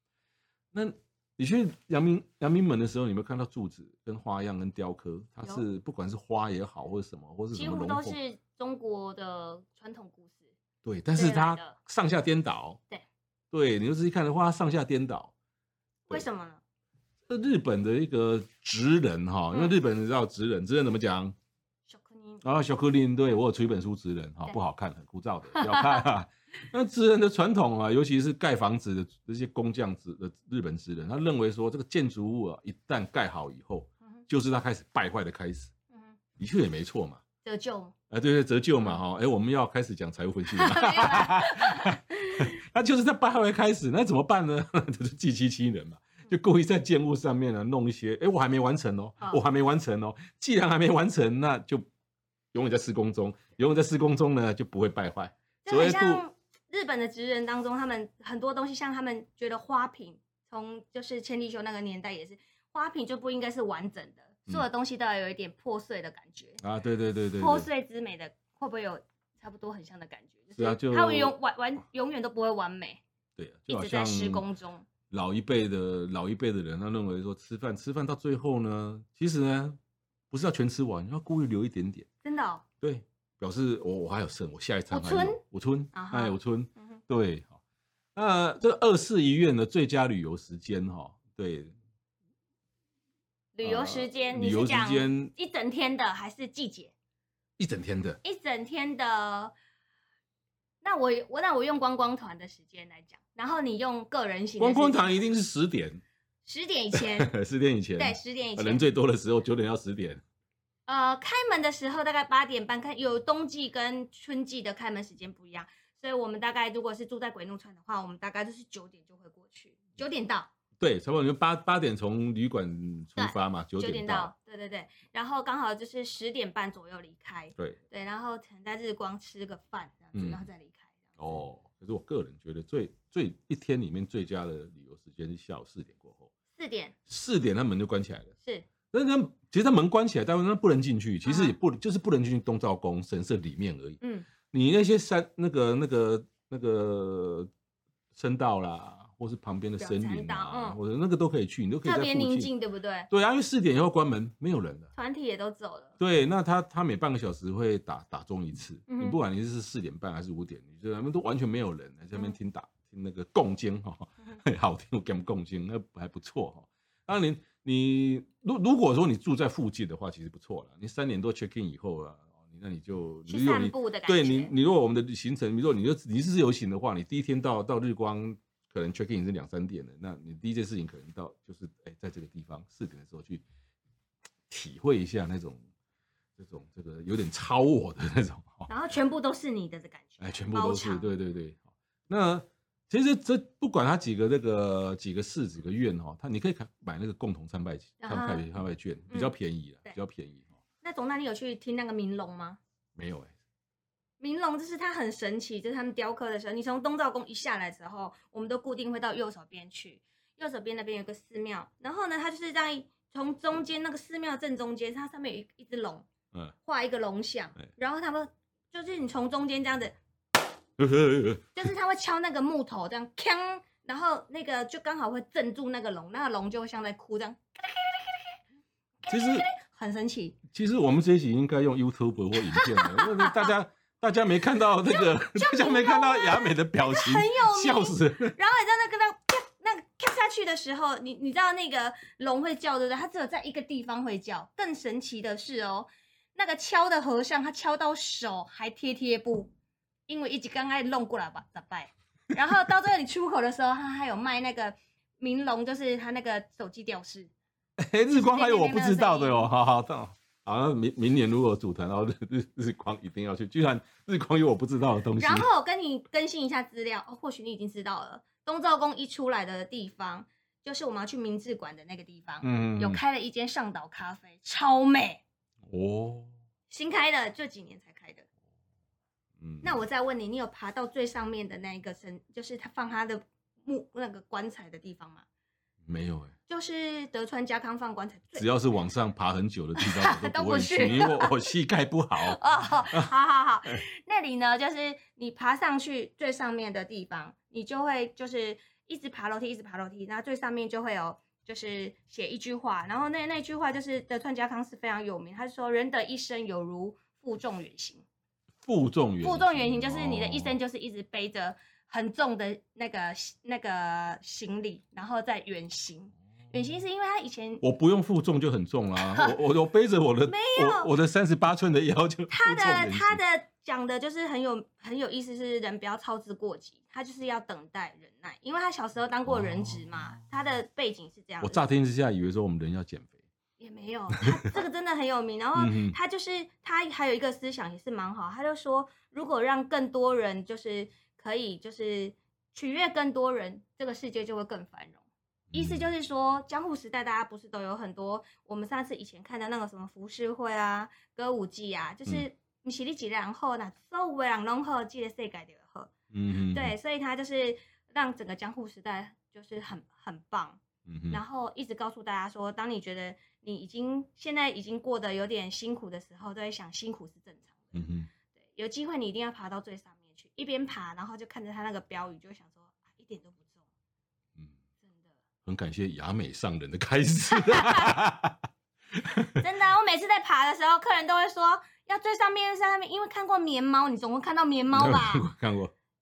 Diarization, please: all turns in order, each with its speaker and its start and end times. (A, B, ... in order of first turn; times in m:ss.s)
0:00.7-0:08.2 A
0:07.5-0:10.5 B
0:10.8-0:12.8 A
0:11.2-0:11.8 B
0:13.5-0:15.3 A
0:16.1-0:16.6 B
0:17.3-0:21.3 A
0:21.9-0:22.4 B
0:22.4-0:35.7 A
0:25.6-0:26.0 B
0:35.9-0:36.2 B
0:36.4-0:37.2 A
0:37.4-0:37.9 B
0:38.1-0:51.8 A
0:40.5-0:42.5 B
0:52.5-0:56.2 A
0:55.6-1:06.6 B
1:06.6-1:07.7 A
1:07.4-1:13.0 B
1:10.6-1:11.4 A
1:13.4-1:14.4 A
1:13.7-1:14.9 B
1:15.1-1:19.8 A
1:20.3-1:22.1 A
1:22.2-1:22.6 B
1:22.8-1:27.6 A
1:24.9-1:25.4 B
1:25.9-1:27.0 B
1:28.2-1:31.7 A
1:33.6-1:36.9 B
1:33.6-1:35.3 A
1:37.6-1:38.2 A
1:38.2-1:39.6 B
1:40.8-1:45.2 B
1:44.6-1:46.0 A
1:46.5-1:47.3 B
1:47.0-1:50.2 A
1:48.0-1:48.8 B
1:50.9-2:00.5 B
2:00.8-2:04.3 A
2:03.2-2:11.4 B
2:10.1-2:10.5 A
2:11.2-2:16.3 A
2:16.6-2:17.0 B
2:17.1-2:18.3 A
2:18.9-2:27.5 A
2:21.2-2:21.6 B
2:24.0-2:24.3 B
2:28.1-2:32.5 A
2:29.8-2:30.8 B
2:31.8-2:33.1 B
2:33.1-2:34.9 A
2:35.0-2:36.0 B
2:36.0-3:03.4 A
2:38.9-2:39.2 B
2:53.3-2:54.5 B
3:04.5-3:05.6 A
3:06.4-3:08.7 A
3:08.7-3:11.1 B
3:10.2-3:20.5 A
3:18.0-3:18.5 B
3:20.8-3:22.6 B
3:23.0-3:23.3 A
3:24.2-3:36.1 B
3:36.7-3:40.0 B
3:40.8-3:41.7 A
3:41.6-3:47.4 B
3:49.0-3:50.4 B
3:49.1-3:49.5 A
3:50.5-3:58.4 A
3:52.6-3:53.5 B
3:54.9-4:09.5 B
4:10.1-4:17.3 B
4:17.8-4:25.5 A
4:18.1-4:19.5 B
4:25.2-4:35.2 B
4:32.4-4:33.0 A
4:35.7-4:36.3 A
4:36.7-4:38.2 B
4:39.4-4:39.8 A
4:39.6-4:45.2 B
4:45.9-4:46.3 A
4:46.5-4:48.5 B
4:48.4-4:52.4 A
4:49.8-4:51.3 B
4:52.2-5:08.0 B
5:08.6-5:10.6 A
5:09.2-5:17.6 B
5:17.6-5:23.2 A
5:19.0-5:19.4 B
5:20.3-5:20.9 B
5:22.3-5:31.6 B
5:29.3-5:30.2 A
5:31.4-5:33.2 A
5:33.6-5:45.0 B
5:35.6-5:36.0 A
5:45.5-5:45.9 A
5:45.5-5:55.9 B
5:56.1-5:56.7 A
5:56.4-6:00.6 B
6:00.9-6:01.2 A
6:01.1-6:07.8 B
6:07.7-6:08.1 A
6:08.4-6:13.6 B
6:14.8-6:15.1 B
6:15.4-6:18.4 A
6:17.3-6:18.0 B
6:19.4-6:25.3 B
6:24.7-6:25.7 A